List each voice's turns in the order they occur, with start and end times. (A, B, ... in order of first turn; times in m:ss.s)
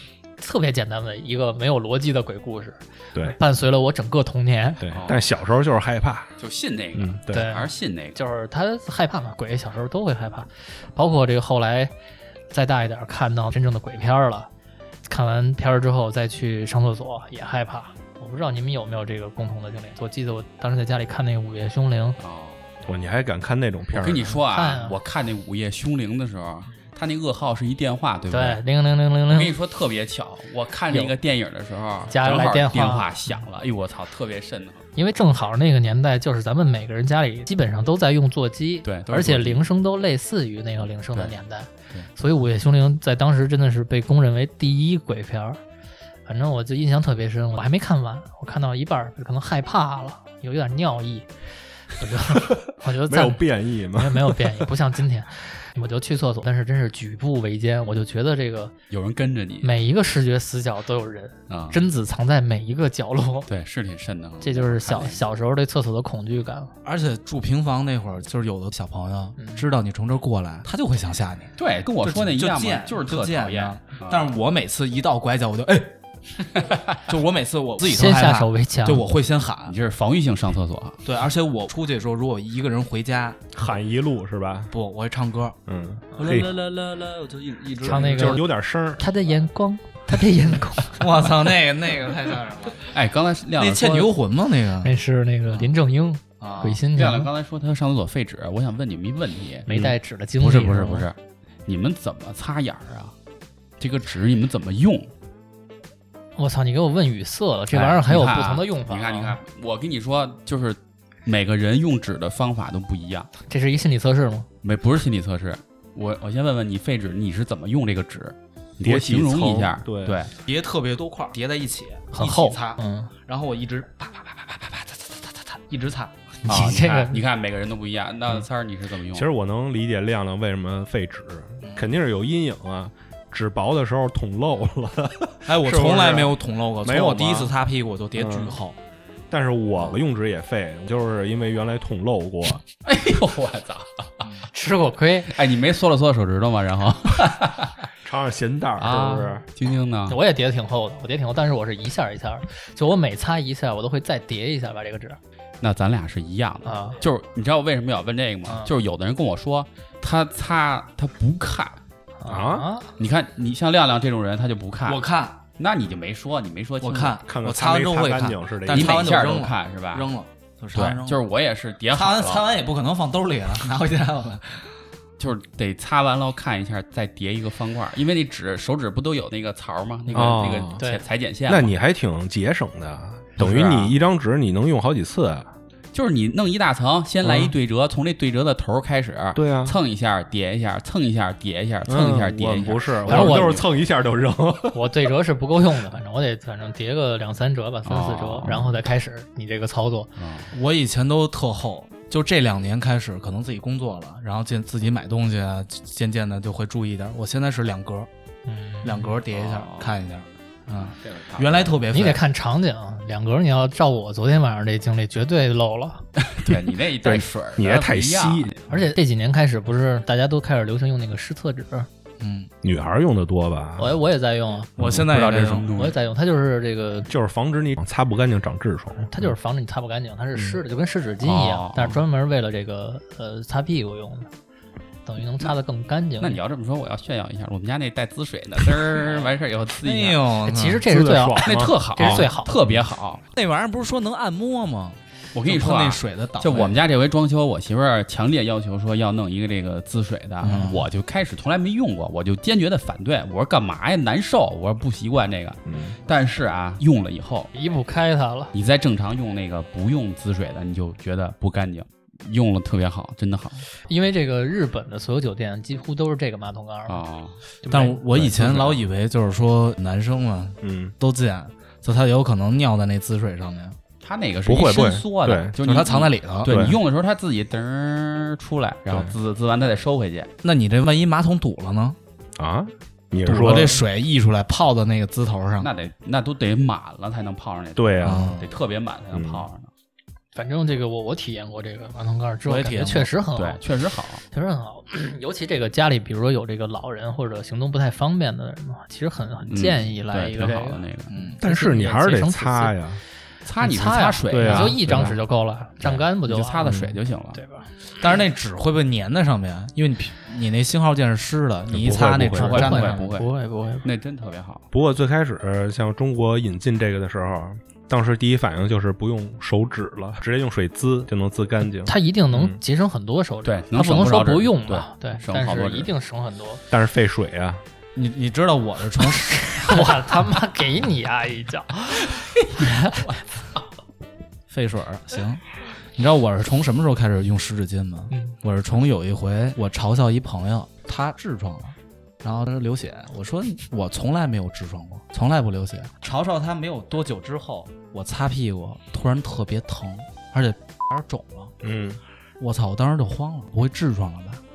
0:00.4-0:04.9 A
0:04.8-0:06.3 B
0:04.9-0:05.2 C
0:06.4-0:08.2 C
0:07.0-0:07.5 B
0:07.3-0:11.9 A
0:12.5-0:14.5 A
0:15.0-0:22.2 A
0:22.2-0:22.6 C
0:22.9-0:24.4 B
0:23.9-0:28.6 C
0:24.5-0:25.0 A
0:28.3-0:29.5 A
0:29.3-0:34.8 C
0:32.1-0:33.1 A
0:35.0-0:45.6 A
0:38.8-0:39.7 C
0:46.3-0:51.3 A
0:51.8-0:58.7 A
0:53.0-0:54.6 B
0:58.9-0:59.7 C
0:59.6-1:03.5 A
1:01.5-1:01.8 C
1:03.5-1:05.2 C
1:04.4-1:06.8 A
1:06.8-1:16.0 D
1:09.4-1:09.7 A
1:11.6-1:14.3 C
1:17.1-1:19.8 D
1:17.8-1:19.0 A
1:19.6-1:21.0 C
1:21.0-1:23.4 D
1:23.5-1:24.7 B
1:24.7-1:25.6 D
1:25.7-1:26.5 B
1:26.2-1:28.5 D
1:27.8-1:31.0 A
1:27.8-1:29.0 B
1:31.0-1:32.9 D
1:32.9-1:34.2 C
1:33.6-1:35.0 D
1:34.8-1:37.3 A
1:36.4-1:36.8 D
1:37.0-1:39.7 C
1:39.7-1:41.1 A
1:40.4-1:43.1 C
1:43.8-1:45.1 C
1:46.4-1:49.4 A
1:47.7-1:53.3 C
1:53.5-1:54.5 A
1:54.6-2:00.3 C
1:58.8-2:00.2 B
2:00.4-2:06.2 D
2:02.1-2:03.1 A
2:06.4-2:07.2 A
2:06.4-2:09.3 C
2:09.1-2:17.6 B
2:15.5-2:18.8 D
2:18.2-2:18.6 B
2:19.3-2:22.6 B
2:22.8-2:24.3 C
2:24.5-2:25.3 A
2:25.3-2:27.9 C
2:28.0-2:29.4 B
2:28.8-2:30.2 C
2:30.1-2:35.2 A
2:35.6-2:41.8 C
2:36.6-2:37.0 A
2:38.5-2:38.7 A
2:42.2-2:42.9 A
2:42.3-2:42.7 B
2:43.0-2:45.0 C
2:44.8-2:45.4 D
2:45.6-2:47.2 C
2:46.8-2:51.2 D
2:47.3-2:49.2 B
2:48.7-2:50.1 C
2:50.7-2:52.5 C
2:51.9-2:54.7 D
2:55.2-3:01.7 C
3:00.1-3:00.8 B
3:00.8-3:01.0 A
3:01.5-3:05.5 B
3:03.4-3:04.0 C
3:05.9-3:13.7 C
3:07.2-3:07.5 B
3:09.4-3:09.8 B
3:11.9-3:14.9 B
3:13.1-3:13.6 A
3:14.7-3:20.1 A
3:17.9-3:18.7 C
3:20.2-3:20.5 C
3:20.5-3:28.1 D
3:28.5-3:29.2 A
3:28.8-3:32.2 D
3:29.3-3:30.0 C
3:31.0-3:31.8 C
3:31.9-3:36.0 A
3:36.3-3:38.6 C
3:37.0-3:38.5 B
3:38.7-3:41.9 A
3:42.2-3:42.5 D
3:42.6-3:44.0 B
3:43.8-3:44.7 A
3:44.8-3:45.9 D
3:44.8-3:46.0 C
3:44.9-3:45.1 B
3:45.8-3:47.1 A
3:47.1-3:49.3 B
3:49.0-3:54.3 A
3:51.2-3:52.0 C
3:55.1-3:56.4 A
3:56.2-4:00.3 C
3:59.8-4:00.9 D
4:00.5-4:02.6 A
4:00.9-4:02.3 B
4:01.4-4:03.2 C
4:03.3-4:06.8 D
4:05.3-4:17.5 C
4:10.4-4:10.9 D
4:15.7-4:16.0 B
4:17.5-4:18.5 A
4:18.5-4:23.7 C
4:23.9-4:27.0 A
4:26.9-4:27.4 C
4:27.6-4:28.0 A
4:27.7-4:33.8 D
4:28.1-4:28.8 C
4:30.6-4:31.0 B
4:34.0-4:40.3 C
4:34.4-4:35.6 B
4:35.6-4:36.6 D
4:36.4-4:36.8 B
4:38.9-4:39.1 B
4:40.4-4:42.0 D
4:42.4-4:43.8 B
4:43.2-4:45.7 D
4:45.6-4:49.7 C
4:47.8-4:48.4 B
4:48.0-4:48.5 D
4:49.1-4:49.5 B
4:50.4-4:53.6 A
4:52.4-4:53.1 D
4:53.4-4:54.2 C
4:54.3-5:00.8 A
4:59.5-5:01.2 C
5:01.1-5:01.4 D
5:01.4-5:03.0 B
5:01.4-5:02.8 A
5:03.4-5:05.2 C
5:03.6-5:06.8 A
5:04.3-5:05.2 B
5:05.8-5:07.4 C
5:06.6-5:06.9 B
5:07.3-5:07.7 A
5:08.0-5:13.1 D
5:11.7-5:12.8 B
5:12.3-5:13.3 C
5:12.4-5:13.9 A
5:13.8-5:14.6 C
5:14.7-5:22.6 B
5:21.9-5:26.6 A
5:23.4-5:25.9 C
5:26.7-5:27.6 B
5:28.0-5:30.0 D
5:29.4-5:33.2 A
5:34.5-5:35.4 D
5:36.0-5:51.5 D
5:38.1-5:38.4 A
5:51.6-5:52.0 B
5:52.4-5:54.4 D